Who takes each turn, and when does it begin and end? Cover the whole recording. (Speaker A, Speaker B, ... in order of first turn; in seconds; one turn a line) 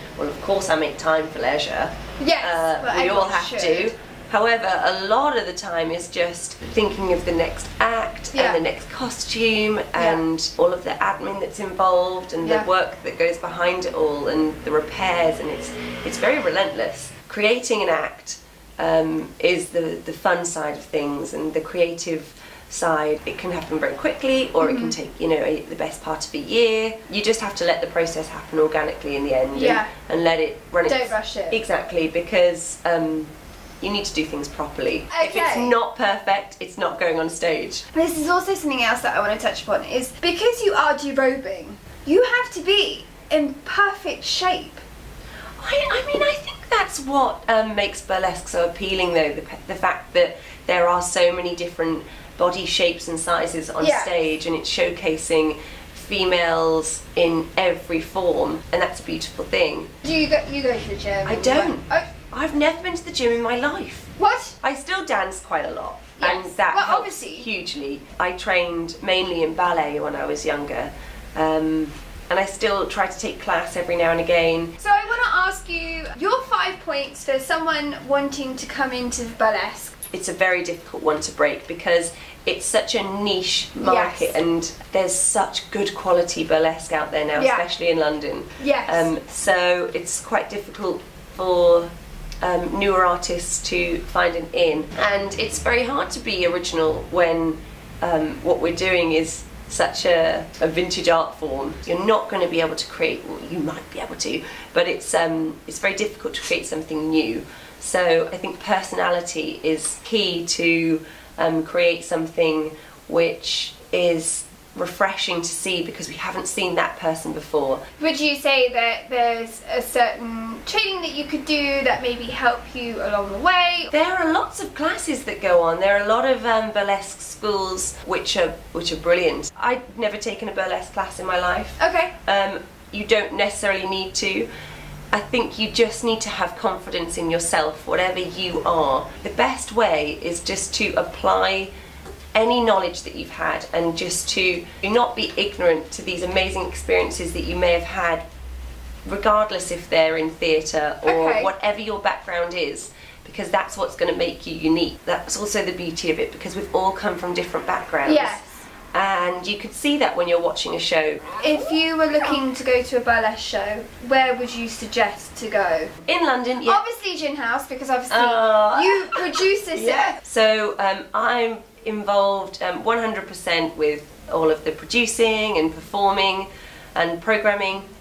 Speaker A: 0.2-37.9
Speaker B: 2.2-3.9
Speaker B: 8.3-8.6
Speaker B: 24.6-24.9
Speaker B: 29.5-29.9
Speaker B: 30.9-31.6
Speaker B: 35.1-35.8
Speaker B: 37.9-44.8
Speaker A: 45.6-59.9
Speaker B: 53.8-54.1
Speaker B: 60.0-62.1
Speaker A: 61.2-64.1
Speaker B: 64.2-64.5
Speaker A: 64.6-74.7
Speaker B: 66.2-67.5
Speaker B: 74.8-80.0
Speaker A: 80.1-91.9
Speaker B: 83.8-84.3
Speaker B: 87.3-87.6
Speaker B: 88.6-89.1
Speaker A: 92.4-117.8
Speaker B: 118.0-123.9
Speaker A: 123.9-134.5
Speaker B: 131.8-132.1
Speaker A: 135.1-141.7
Speaker A: 142.3-148.2
Speaker A: 149.1-158.4
Speaker B: 151.1-151.5
Speaker B: 158.0-158.4
Speaker A: 158.9-161.2
Speaker B: 161.4-165.9
Speaker A: 166.1-166.8
Speaker B: 166.7-170.2
Speaker A: 168.1-177.9